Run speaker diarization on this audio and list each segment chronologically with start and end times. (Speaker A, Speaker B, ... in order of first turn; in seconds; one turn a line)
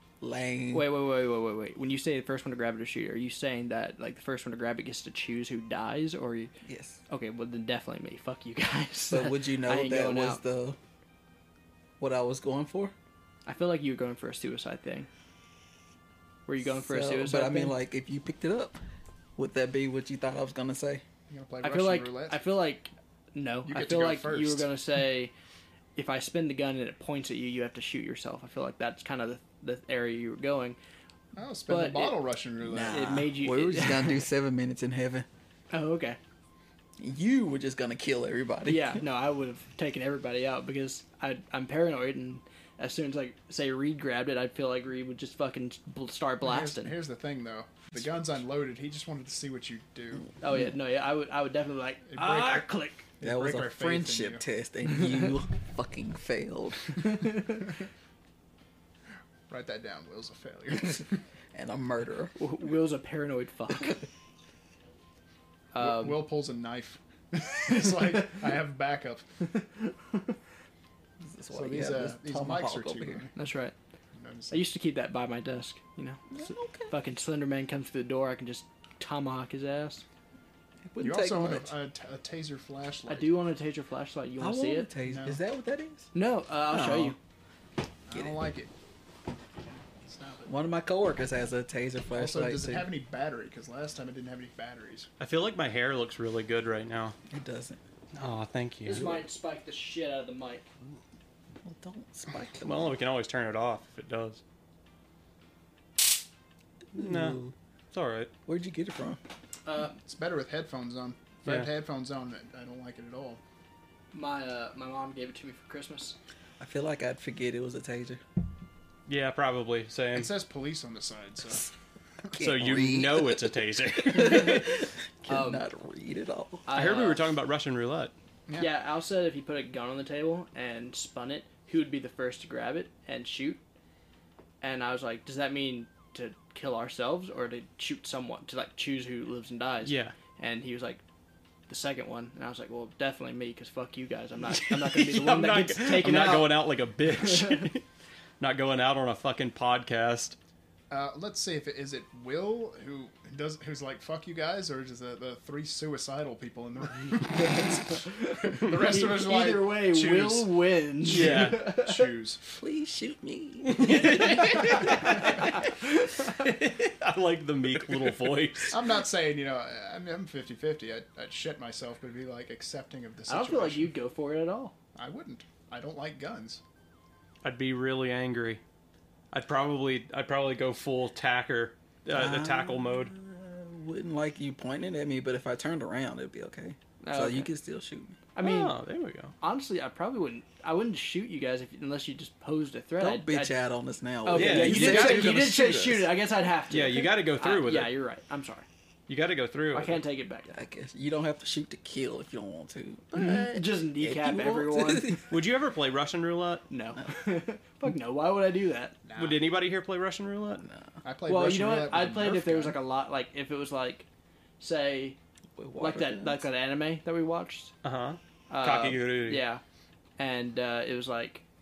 Speaker A: 0.2-0.9
Speaker B: 0.7-6.5
Speaker A: 6.7-7.0
Speaker B: 7.1-10.4
Speaker A: 9.1-10.8
Speaker A: 12.0-12.9
Speaker B: 13.5-15.1
Speaker B: 16.5-17.8
Speaker A: 16.6-18.8
Speaker A: 19.4-21.0
Speaker C: 21.3-22.4
Speaker B: 21.6-25.3
Speaker C: 23.6-24.7
Speaker B: 26.0-30.8
Speaker C: 31.4-33.2
Speaker B: 31.7-32.2
Speaker A: 32.6-35.3
Speaker B: 32.8-34.2
Speaker B: 35.7-36.2
Speaker A: 37.0-39.0
Speaker B: 38.7-47.0
Speaker C: 46.4-50.3
Speaker B: 50.4-53.1
Speaker C: 52.1-54.4
Speaker A: 53.2-57.1
Speaker B: 57.0-57.6
Speaker C: 59.5-61.1
Speaker A: 61.5-62.4
Speaker B: 62.4-64.1
Speaker B: 65.7-66.2
Speaker C: 65.8-69.2
Speaker B: 69.5-70.2
Speaker A: 71.2-73.3
Speaker C: 71.5-73.3
Speaker B: 73.4-73.7
Speaker C: 74.2-74.7
Speaker B: 74.5-80.0
Speaker A: 76.3-76.9
Speaker A: 80.9-81.7
Speaker C: 81.0-83.4
Speaker B: 83.1-84.9
Speaker A: 84.4-86.1
Speaker C: 85.1-85.4
Speaker B: 86.1-87.2
Speaker A: 86.7-87.2
Speaker C: 88.1-88.7
Speaker C: 90.0-90.5
Speaker A: 90.5-92.9
Speaker C: 92.1-95.1
Speaker D: 95.2-97.2
Speaker A: 97.3-97.8
Speaker D: 98.1-99.1
Speaker B: 98.9-100.7
Speaker A: 101.6-102.9
Speaker D: 102.6-104.4
Speaker A: 106.9-107.5
Speaker D: 107.0-107.4
Speaker D: 107.9-108.3
Speaker A: 108.5-109.2
Speaker B: 109.7-110.0
Speaker C: 110.0-113.4
Speaker D: 111.5-111.7
Speaker B: 114.1-116.2
Speaker A: 116.6-118.2
Speaker D: 119.1-120.3
Speaker C: 120.1-121.7
Speaker A: 122.3-126.7
Speaker D: 122.4-124.8
Speaker B: 125.3-125.7
Speaker B: 126.7-127.3
Speaker D: 126.7-128.1
Speaker B: 128.6-133.6
Speaker B: 134.6-141.0
Speaker D: 139.8-140.2
Speaker B: 141.7-147.7
Speaker D: 144.5-147.8
Speaker D: 148.4-150.4
Speaker C: 150.9-160.5
Speaker B: 157.4-162.1
Speaker D: 161.1-161.7
Speaker C: 161.1-162.4
Speaker A: 162.5-165.5
Speaker D: 163.7-168.8
Speaker B: 164.4-166.3
Speaker C: 168.7-173.9
Speaker B: 173.3-174.8
Speaker C: 174.9-176.6
Speaker D: 177.4-178.6
Speaker D: 179.3-183.1
Speaker A: 182.1-188.2
Speaker B: 187.0-187.5
Speaker B: 188.3-188.8
Speaker D: 188.4-189.3
Speaker B: 189.4-193.6
Speaker A: 193.0-196.1
Speaker B: 194.2-198.7
Speaker D: 194.3-195.5
Speaker D: 196.7-197.9
Speaker D: 199.1-200.0
Speaker B: 199.7-200.6
Speaker A: 200.5-205.3
Speaker B: 203.2-205.3
Speaker D: 205.3-206.7
Speaker B: 206.7-209.0
Speaker C: 209.0-209.4
Speaker D: 209.2-210.7
Speaker A: 210.6-210.9
Speaker C: 211.0-212.8
Speaker B: 211.3-214.1
Speaker B: 214.6-215.2
Speaker A: 215.6-216.4
Speaker B: 215.8-217.7
Speaker D: 217.8-219.4
Speaker B: 218.5-219.6
Speaker B: 220.2-221.4